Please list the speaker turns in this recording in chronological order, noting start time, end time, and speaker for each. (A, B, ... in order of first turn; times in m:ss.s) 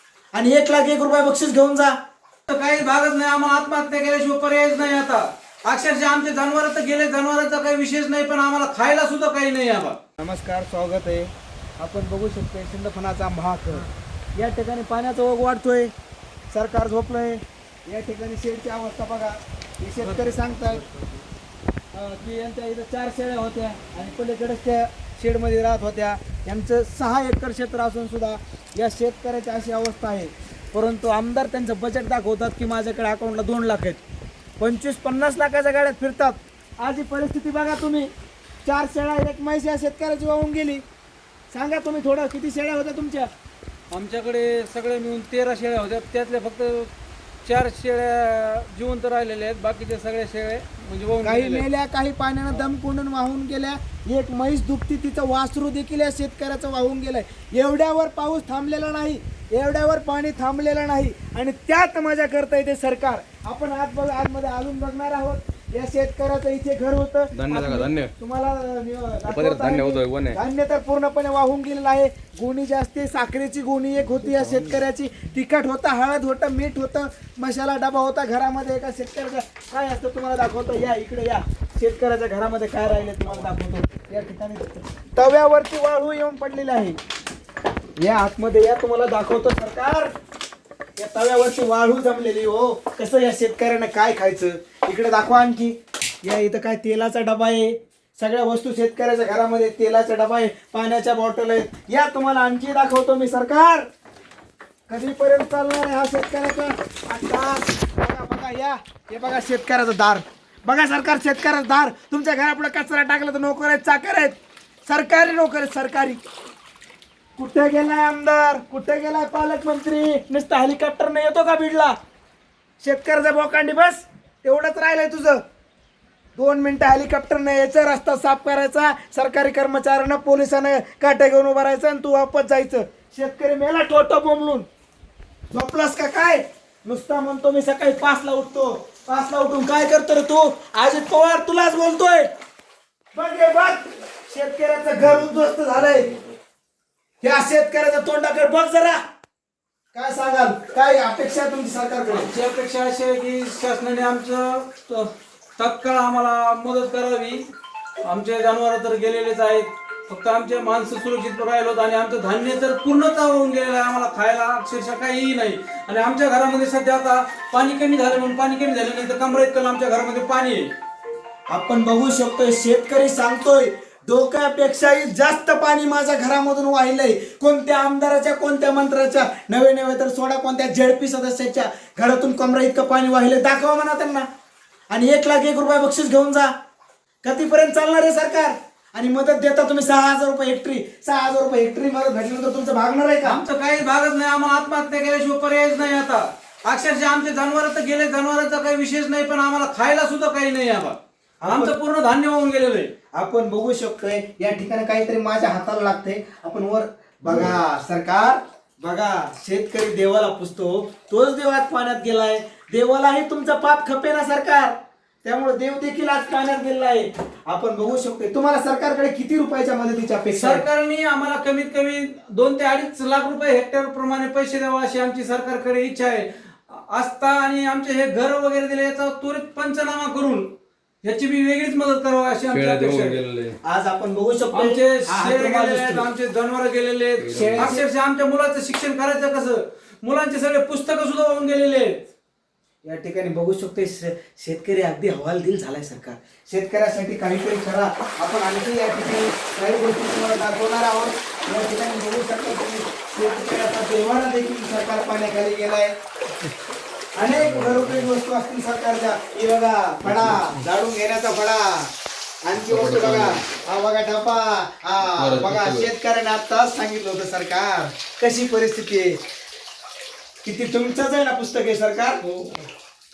0:00.3-0:02.0 A
0:02.5-0:10.0 B
0:10.2-0:13.8 A
0:14.4-0:15.9 A
0:16.5-0:20.8 A
0:20.0-0:21.2 B
0:21.9-0:34.0 A
0:34.6-0:38.1 A
0:38.6-0:40.8 A
0:41.5-0:43.3 A
0:43.9-0:46.9 B
0:47.4-0:51.6 B
0:51.2-1:27.0 A
1:07.3-1:08.1 C
1:09.2-1:10.4 C
1:14.3-1:14.6 C
1:28.0-1:30.1 A
1:31.0-1:43.8 A
1:44.9-1:56.2 A
1:57.4-2:02.0 A
2:02.8-2:05.4 A
2:06.4-2:14.7 A
2:15.5-2:22.3 A
2:23.1-2:26.2 A
2:27.2-2:29.0 A
2:29.9-2:32.3 A
2:32.1-2:37.4 B
2:38.0-2:50.7 B
2:51.5-3:04.2 A
3:04.9-3:06.5 A
3:07.2-3:13.4 A
3:13.2-3:21.0 B
3:21.4-3:21.7 A
3:21.5-3:22.9 B
3:23.1-3:40.6 A
3:40.3-3:50.5 B
3:51.0-3:53.2 B
3:52.5-3:53.6 C
3:53.6-3:56.0 A
3:54.5-4:02.0 B
3:57.2-3:57.7 C
3:57.3-3:57.8 A
4:02.8-4:15.9 A
4:17.2-4:21.9 A
4:17.4-4:18.1 C
4:20.0-4:20.6 C
4:22.4-4:29.2 A
4:22.5-4:23.4 C
4:25.0-4:25.9 C
4:30.4-4:32.2 A
4:32.2-4:32.7 B